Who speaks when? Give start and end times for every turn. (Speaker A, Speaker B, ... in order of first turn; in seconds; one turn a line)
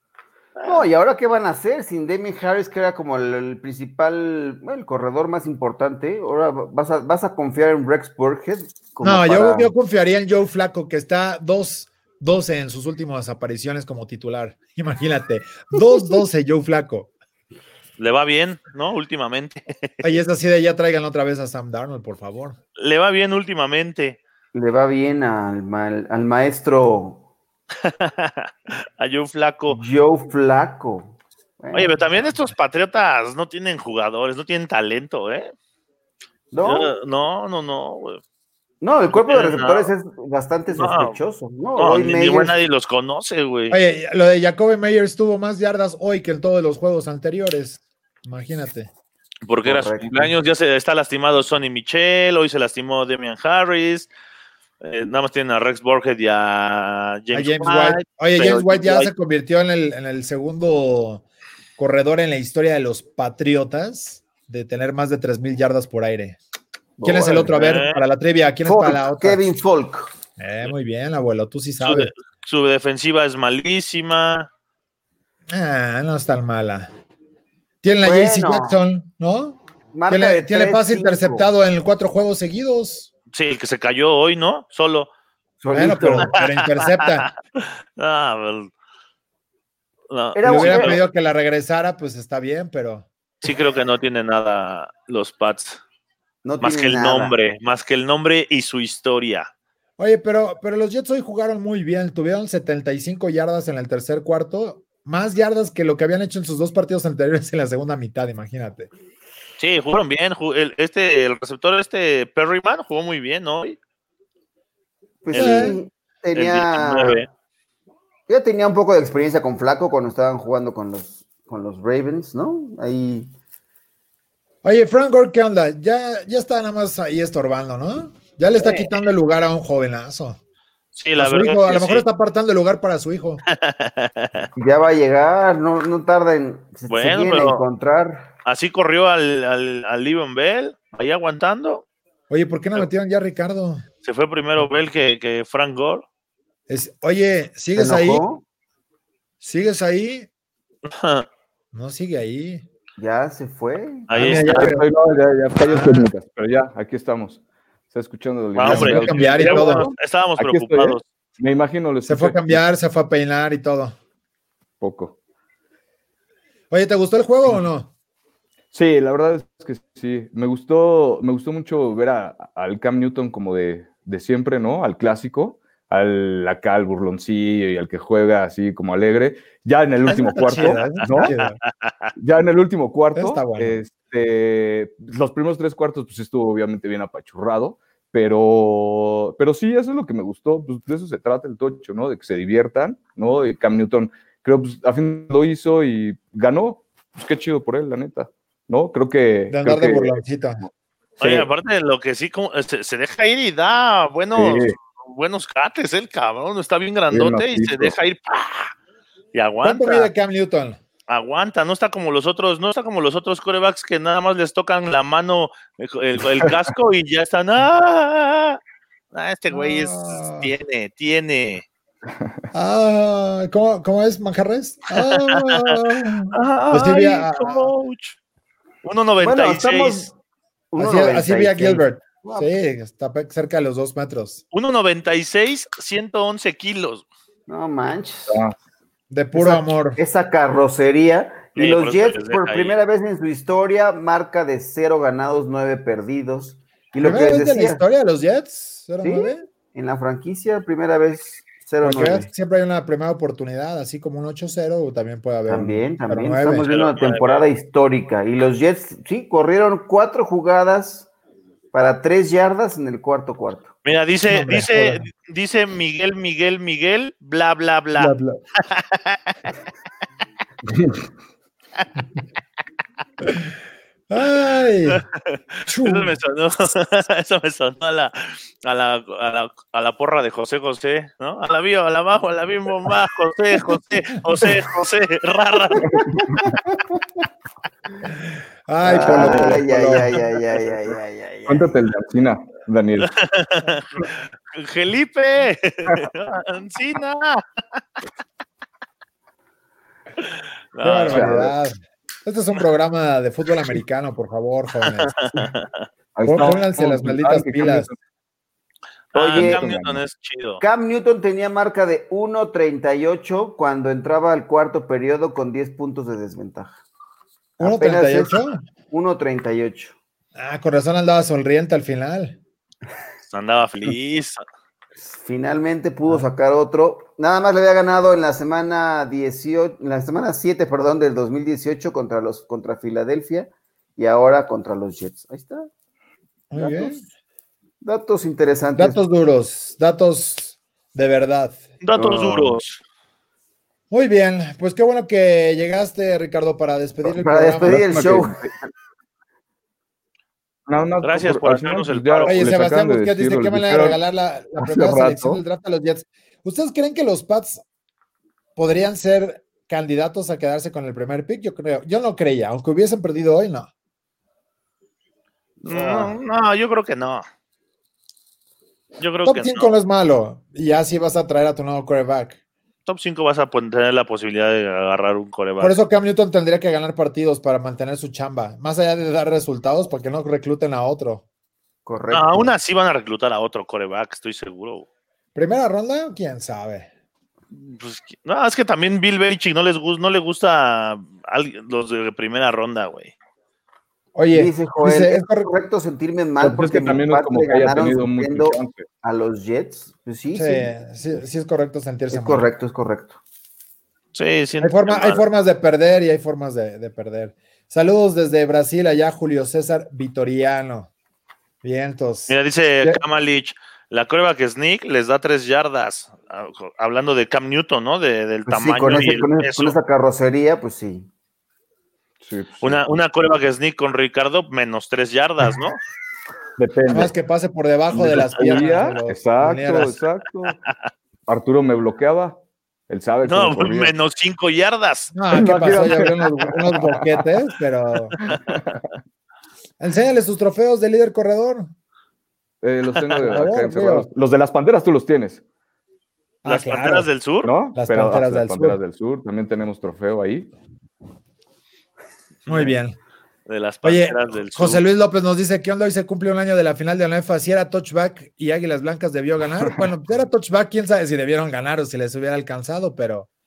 Speaker A: 0.6-0.8
Speaker B: 0.6-9.7
Speaker C: 9.0-17.1
Speaker A: 18.0-20.1
Speaker C: 20.0-22.6
Speaker A: 22.8-24.2
Speaker B: 24.5-27.2
Speaker A: 27.8-29.8
Speaker B: 29.7-32.0
Speaker A: 31.7-35.5
Speaker B: 36.5-36.9
Speaker A: 36.6-38.2
Speaker B: 38.8-42.5
Speaker A: 39.3-39.9
Speaker A: 40.7-41.1
Speaker A: 41.8-43.8
Speaker C: 43.7-48.9
Speaker A: 49.5-54.1
Speaker B: 49.6-50.3
Speaker A: 54.8-59.1
Speaker C: 57.3-61.2
Speaker C: 61.8-66.4
Speaker B: 67.0-67.8
Speaker C: 67.0-69.4
Speaker A: 67.5-68.0
Speaker B: 68.6-70.1
Speaker C: 70.4-72.1
Speaker A: 71.8-74.5
Speaker C: 75.5-76.9
Speaker C: 77.8-83.1
Speaker B: 78.0-78.8
Speaker B: 79.9-81.5
Speaker A: 83.3-85.1
Speaker B: 85.6-86.3
Speaker C: 85.7-87.3
Speaker A: 86.2-88.7
Speaker A: 90.1-91.0
Speaker B: 90.3-91.0
Speaker C: 90.4-93.1
Speaker A: 93.4-95.8
Speaker B: 96.4-97.3
Speaker A: 96.6-99.5
Speaker C: 100.0-108.9
Speaker A: 109.6-113.8
Speaker B: 115.2-117.2
Speaker A: 115.3-115.8
Speaker C: 115.3-115.8
Speaker A: 116.3-117.3
Speaker B: 118.3-123.3
Speaker C: 124.6-130.4
Speaker A: 130.9-132.0
Speaker C: 131.2-133.4
Speaker A: 133.5-134.5
Speaker B: 134.6-138.3
Speaker A: 136.9-137.6
Speaker A: 138.4-141.8
Speaker C: 142.3-143.8
Speaker A: 144.0-146.0
Speaker C: 146.7-148.2
Speaker B: 147.8-148.4
Speaker C: 149.4-150.3
Speaker A: 150.8-151.3
Speaker C: 151.7-152.6
Speaker B: 153.0-154.1
Speaker A: 154.1-154.7
Speaker C: 154.1-154.8
Speaker D: 154.3-162.6
Speaker C: 155.6-156.1
Speaker A: 158.5-161.0
Speaker C: 158.6-159.8
Speaker C: 162.1-163.9
Speaker D: 164.8-165.2
Speaker C: 166.7-167.9
Speaker D: 168.7-181.3
Speaker A: 180.1-182.1
Speaker C: 180.1-181.6
Speaker D: 182.2-200.7
Speaker C: 183.2-183.8
Speaker C: 199.5-200.6
Speaker D: 201.2-201.5
Speaker A: 201.2-208.7
Speaker D: 204.3-204.8
Speaker D: 207.1-207.9
Speaker A: 209.3-210.1
Speaker C: 209.6-210.8
Speaker A: 211.1-218.6
Speaker A: 219.1-221.6
Speaker C: 219.5-220.5
Speaker C: 222.5-227.7
Speaker A: 224.9-225.8
Speaker A: 226.3-228.2
Speaker A: 228.8-230.1
Speaker B: 229.2-230.1
Speaker B: 230.7-232.5
Speaker C: 230.8-234.4
Speaker A: 234.5-237.0
Speaker B: 237.5-238.4
Speaker D: 238.3-238.5
Speaker C: 239.1-240.0
Speaker B: 239.3-247.8
Speaker A: 241.6-242.8
Speaker C: 247.0-249.4
Speaker B: 249.0-252.3
Speaker C: 251.8-256.7
Speaker B: 255.5-261.1
Speaker A: 256.6-257.5
Speaker B: 261.7-263.7
Speaker A: 263.8-268.1
Speaker C: 264.3-265.0
Speaker C: 267.9-268.4
Speaker A: 268.6-269.3
Speaker D: 270.7-271.0
Speaker C: 274.1-275.0
Speaker A: 274.9-285.9
Speaker C: 275.7-276.2
Speaker D: 285.8-286.5
Speaker C: 288.7-290.2
Speaker B: 288.8-291.7
Speaker D: 289.0-289.6
Speaker D: 291.4-293.1
Speaker A: 293.0-297.4
Speaker A: 300.2-301.3
Speaker C: 300.8-305.3
Speaker D: 301.1-301.5
Speaker A: 304.9-305.8
Speaker D: 306.1-308.0
Speaker C: 306.2-307.9
Speaker A: 309.1-310.6
Speaker B: 309.1-309.6
Speaker D: 309.3-310.0
Speaker B: 310.6-316.8
Speaker B: 317.6-319.9
Speaker C: 317.6-318.6
Speaker C: 320.3-322.4
Speaker A: 323.3-324.4
Speaker B: 325.0-335.7
Speaker C: 336.5-337.0
Speaker B: 336.5-337.0
Speaker B: 337.8-339.0
Speaker C: 338.8-341.6
Speaker A: 341.8-342.8
Speaker B: 341.9-342.6
Speaker C: 343.9-348.1
Speaker B: 347.1-348.4
Speaker D: 347.6-348.5
Speaker D: 350.7-354.0
Speaker A: 351.0-352.5
Speaker C: 352.2-357.6
Speaker D: 354.6-355.4
Speaker C: 358.6-363.7
Speaker B: 365.6-366.2
Speaker A: 365.6-367.2
Speaker A: 369.0-369.7
Speaker C: 369.2-372.4
Speaker A: 372.9-375.8
Speaker C: 375.6-381.2
Speaker B: 381.9-382.5
Speaker A: 382.1-384.9
Speaker C: 385.3-386.9
Speaker A: 387.5-393.1
Speaker C: 394.1-395.5
Speaker B: 394.3-400.7
Speaker D: 396.4-398.8
Speaker C: 400.3-402.4
Speaker B: 402.1-403.2
Speaker A: 404.1-405.2
Speaker C: 404.6-410.9
Speaker C: 411.6-413.0
Speaker A: 412.3-419.8
Speaker B: 418.5-421.1
Speaker D: 422.2-422.8
Speaker A: 422.6-425.8
Speaker D: 426.6-427.1
Speaker C: 426.9-429.9
Speaker D: 427.9-430.6
Speaker D: 431.3-433.9
Speaker A: 433.2-435.1
Speaker C: 435.1-438.1
Speaker D: 435.3-437.2
Speaker D: 438.2-438.8
Speaker C: 439.8-441.7
Speaker D: 442.6-445.4
Speaker C: 443.1-444.1
Speaker C: 446.4-447.1
Speaker A: 446.4-447.5
Speaker D: 447.4-450.5
Speaker C: 447.7-448.8
Speaker A: 452.4-452.8
Speaker C: 452.4-453.0
Speaker A: 453.5-454.8
Speaker C: 453.8-463.3